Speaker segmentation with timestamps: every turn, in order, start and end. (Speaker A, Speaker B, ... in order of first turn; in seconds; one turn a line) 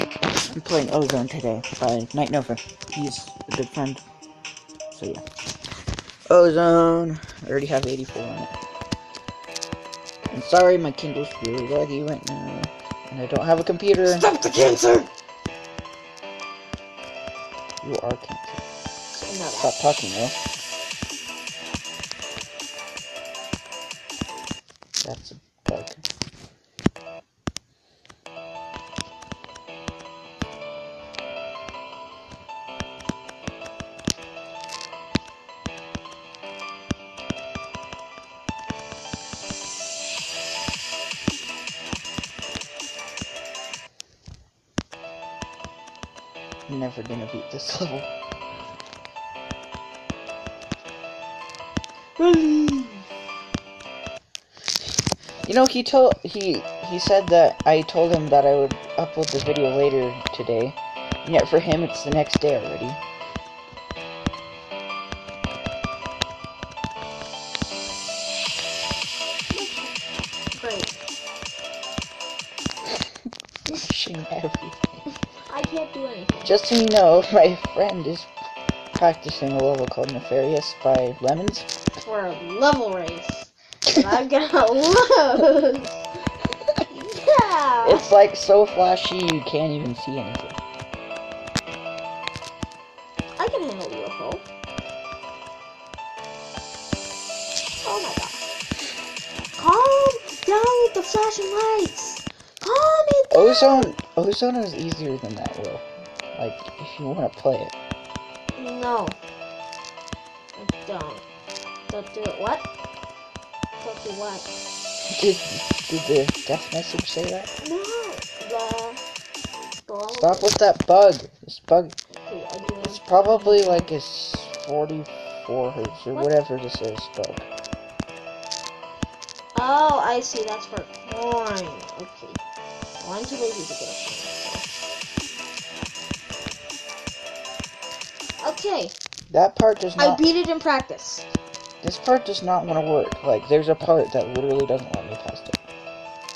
Speaker A: 0.4-4.0
Speaker A: 4.9-5.2
Speaker A: 6.3-8.5
Speaker A: 10.3-14.3
Speaker B: 14.1-15.1
Speaker A: 17.8-18.6
Speaker B: 19.1-19.7
Speaker A: 19.5-20.4
Speaker A: 25.0-26.0
Speaker A: 46.7-48.1
Speaker B: 52.2-53.0
Speaker A: 55.4-63.0
Speaker B: 69.5-70.0
Speaker B: 70.5-70.9
Speaker A: 73.7-75.0
Speaker B: 75.5-76.5
Speaker A: 76.4-78.3
Speaker A: 79.0-81.7
Speaker B: 82.0-86.1
Speaker B: 86.9-88.0
Speaker A: 87.8-90.6
Speaker B: 93.4-94.4
Speaker B: 97.8-98.5
Speaker B: 99.5-104.0
Speaker A: 103.3-105.8
Speaker A: 106.3-107.7
Speaker B: 108.5-109.2
Speaker B: 110.5-111.2
Speaker B: 111.9-112.7
Speaker B: 113.8-114.5
Speaker A: 115.0-117.5
Speaker B: 117.6-119.0
Speaker B: 119.8-120.5
Speaker A: 120.2-121.9
Speaker B: 122.3-123.9
Speaker A: 122.8-127.5
Speaker B: 129.5-132.4
Speaker B: 133.0-134.6
Speaker B: 138.4-138.9
Speaker A: 139.3-140.2
Speaker B: 140.0-141.3
Speaker A: 141.8-145.6